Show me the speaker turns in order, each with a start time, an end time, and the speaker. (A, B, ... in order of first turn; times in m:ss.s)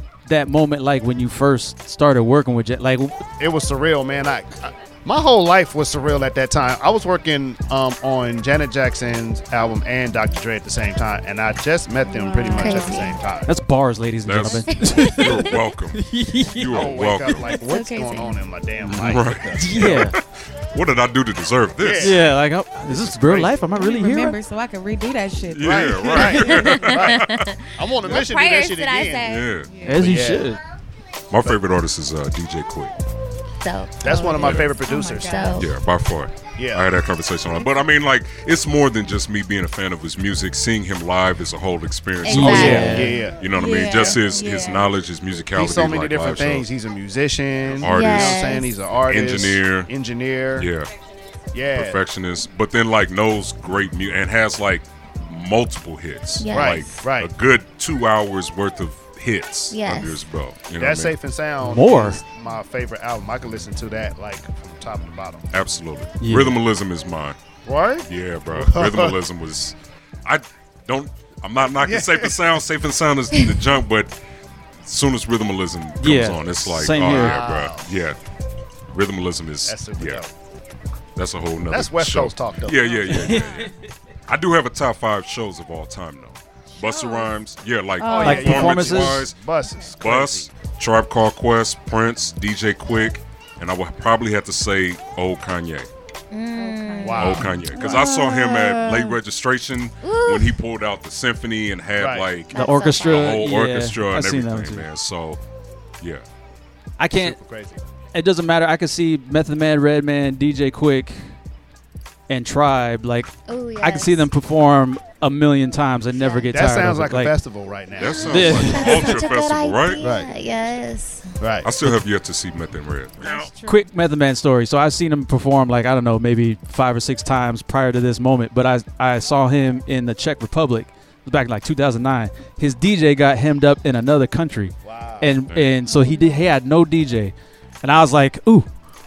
0:00.3-0:03.2 A
0:03.4-0:13.5 B
0:12.0-0:13.2 C
0:12.4-0:13.2 D
0:13.5-0:17.0 A
0:14.2-0:17.5 E
0:14.7-0:15.5 D
0:16.7-0:20.0 B
0:17.5-0:18.4 D
0:18.8-0:22.2 E
0:19.6-0:20.2 A
0:21.8-0:23.6 B
0:22.0-0:24.4 A
0:23.7-0:26.9 C
0:25.5-0:27.5 E
0:25.6-0:29.3 B
0:26.5-0:29.5 D
0:29.2-0:29.7 E
0:29.7-0:30.1 C
0:29.9-0:30.6 A
0:29.9-0:30.5 B
0:31.3-0:32.9 E
0:33.6-0:35.7 D
0:34.0-0:35.4 B
0:34.0-0:35.7 C
0:34.4-0:34.8 E
0:35.6-0:46.7 E
0:36.6-0:36.9 B
0:42.2-0:43.1 D
0:42.3-0:43.2 A
0:42.5-0:43.4 B
0:43.2-0:44.9 C
0:45.5-0:50.7 B
0:47.7-0:49.9 E
0:47.8-0:48.8 D
0:50.6-0:50.9 E
0:51.5-0:52.0 B
0:51.7-1:01.2 E
0:56.4-0:57.0 D
0:56.5-0:57.3 B
0:59.7-1:00.2 D
1:00.8-1:05.5 B
1:01.6-1:02.2 A
1:05.5-1:07.4 E
1:06.2-1:06.6 A
1:07.6-1:09.2 B
1:08.1-1:14.2 E
1:11.8-1:12.4 B
1:14.8-1:18.2 E
1:16.0-1:17.4 A
1:17.0-1:17.9 B
1:18.9-1:20.2 E
1:19.7-1:20.3 B
1:21.2-1:23.7 E
1:21.7-1:23.3 B
1:22.8-1:23.7 C
1:23.1-1:23.8 A
1:24.3-1:29.4 E
1:26.7-1:27.4 C
1:28.0-1:30.5 B
1:28.2-1:29.2 A
1:29.6-1:30.0 C
1:30.0-1:35.9 E
1:36.3-1:38.8 D
1:36.6-1:38.6 C
1:37.0-1:37.5 B
1:37.2-1:45.4 E
1:38.6-1:39.0 A
1:40.0-1:40.6 D
1:42.0-1:42.3 B
1:42.5-1:44.9 A
1:42.5-1:43.4 D
1:47.0-1:47.4 A
1:47.1-1:47.8 B
1:48.1-1:51.2 A
1:52.3-1:57.4 A
1:53.5-1:54.3 D
1:56.2-1:56.5 D
1:56.5-1:58.5 B
1:58.0-2:00.0 E
1:58.0-2:01.3 D
1:58.3-1:58.9 A
2:00.0-2:00.3 B
2:01.4-2:01.7 B
2:01.6-2:03.5 E
2:03.2-2:03.8 C
2:03.6-2:18.7 A
2:14.8-2:15.4 B
2:15.5-2:15.8 E
2:15.9-2:16.4 D